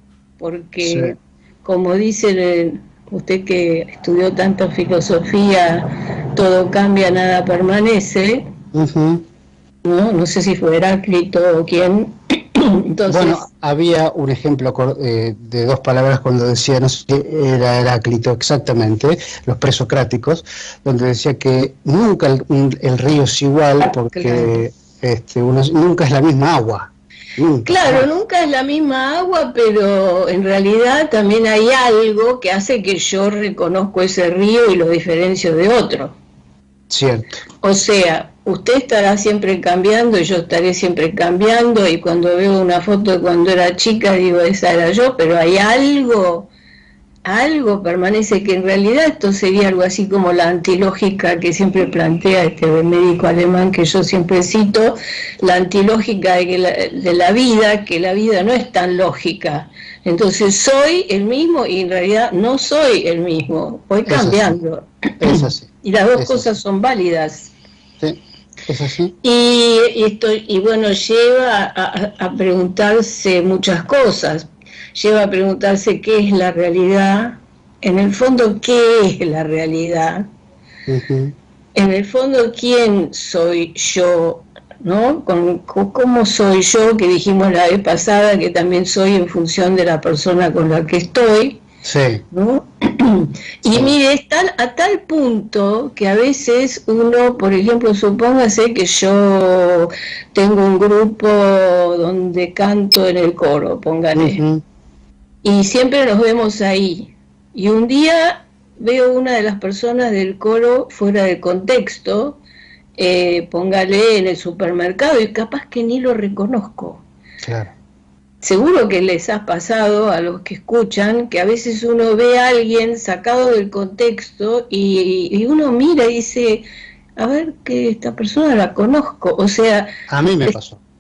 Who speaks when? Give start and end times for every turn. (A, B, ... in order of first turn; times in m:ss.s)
0:00.4-0:08.4 A
0:00.8-0:01.1 B
0:08.7-0:09.2 B
0:09.8-0:13.4 A
0:13.1-0:28.0 B
0:24.1-0:24.6 A
0:27.6-0:36.2 A
0:36.9-0:37.4 B
0:37.6-0:46.5 A
0:47.2-1:07.5 A
1:04.0-1:04.6 B
1:05.2-1:06.5 B
1:08.0-1:09.1 B
1:09.2-1:20.3 A
1:20.9-1:21.3 B
1:21.8-1:31.6 A
1:31.8-1:32.2 B
1:32.3-1:44.4 A
1:33.6-1:33.9 B
1:44.1-1:44.6 B
1:45.4-1:52.4 A
1:53.0-1:57.0 A
1:57.4-1:57.7 B
1:58.4-2:06.6 A
2:07.2-2:09.9 A
2:10.1-2:10.8 B